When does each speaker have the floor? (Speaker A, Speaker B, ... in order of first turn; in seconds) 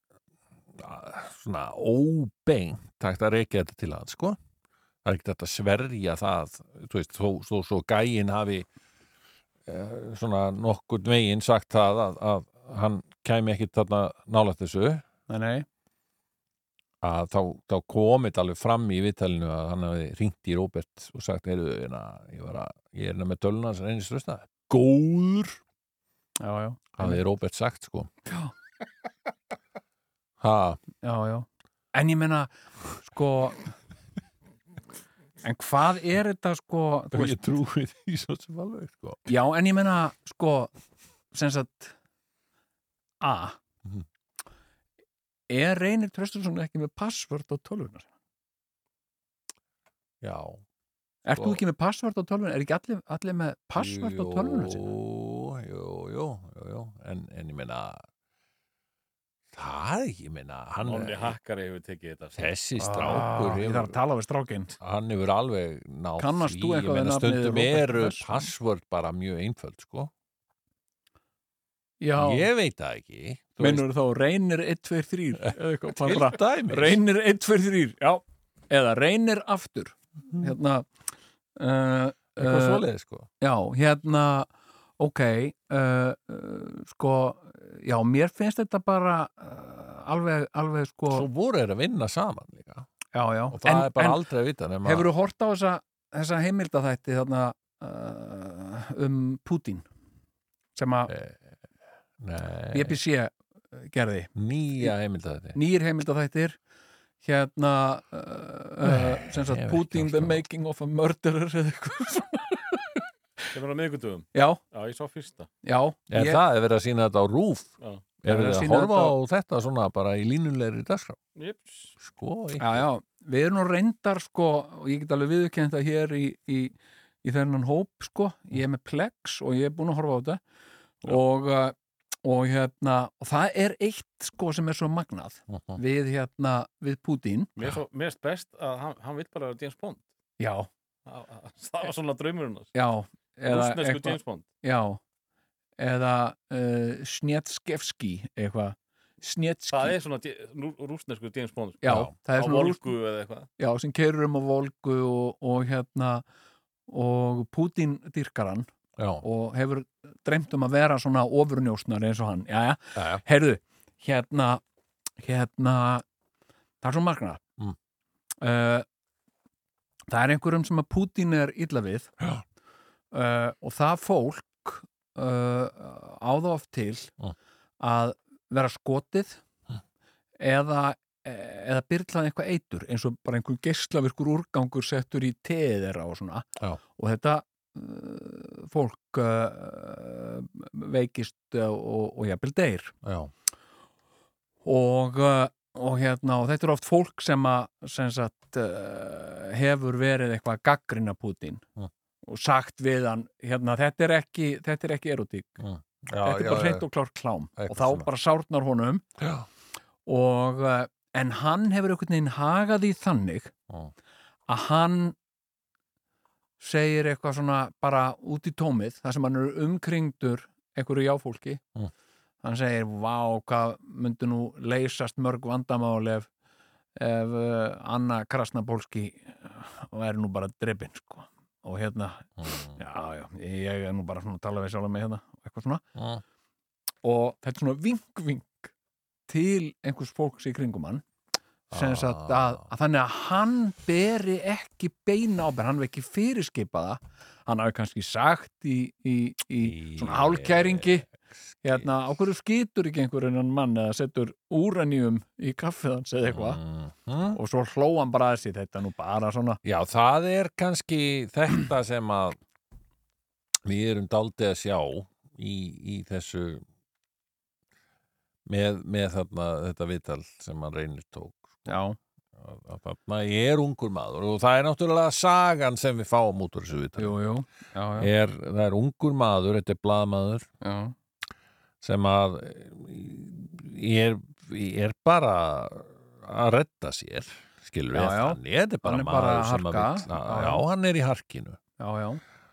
Speaker A: 0.7-4.4, 5.0-8.7, 9.7-15.0, 17.0-25.6, 26.9-28.1, 30.4-30.8, 37.1-39.3, 50.2-50.6, 51.3-51.6, 53.8-58.0, 59.5-61.4, 62.4-64.0, 64.8-70.1, 72.2-73.8, 75.4-77.0, 82.4-83.3, 91.1-92.9, 93.5-95.1, 101.1-101.4, 102.2-103.0, 104.3-105.6, 108.8-110.4, 116.1-117.7, 118.2-121.2, 122.0-122.8, 135.5-135.8, 151.8-152.1, 159.0-159.2, 162.9-163.2, 193.0-193.3, 205.6-206.8, 207.6-208.1, 209.2-209.4, 232.4-232.8, 235.9-236.2, 241.7-242.6, 249.6-251.1, 256.2-257.4, 259.6-262.4, 263.6-266.6, 268.5-271.7, 272.4-277.1, 278.0-280.5, 281.8-291.6
Speaker B: 15.3-15.7, 26.4-27.2, 28.2-28.5, 31.0-33.7, 35.4-37.4, 39.3-40.7, 41.3-41.9, 43.2-43.6, 45.5-48.1, 51.2-54.8, 62.8-64.7, 66.2-68.5, 72.0-72.5, 73.6-80.9, 81.6-82.8, 83.4-91.3, 93.1-94.2, 94.8-99.8, 100.7-101.1, 102.7-104.9, 105.5-106.6, 107.2-113.0, 114.3-114.6, 115.6-116.4, 118.2-119.1, 122.6-130.4, 131.0-137.5, 140.4-140.7, 142.7-145.0, 145.8-149.9, 151.8-152.9, 153.6-156.2, 156.9-158.7, 159.2-164.6, 165.2-166.0, 166.8-167.4, 168.4-168.8, 170.1-172.1, 173.1-177.1, 177.8-179.4, 180.4-192.9, 194.6-201.6, 202.2-205.6, 206.2-209.0, 210.1-213.5, 214.5-215.2, 216.6-221.6, 222.4-226.3, 227.0-235.8, 237.0-238.7, 239.3-241.0, 241.7-251.1, 251.6-256.6, 257.3-259.6, 271.6-272.0, 277.0-278.1, 280.6-280.9, 287.9-290.6, 291.8-292.2
Speaker C: 60.8-62.5, 113.5-115.5, 121.3-121.9, 137.6-140.1, 141.1-142.7, 143.5-144.4, 149.7-153.5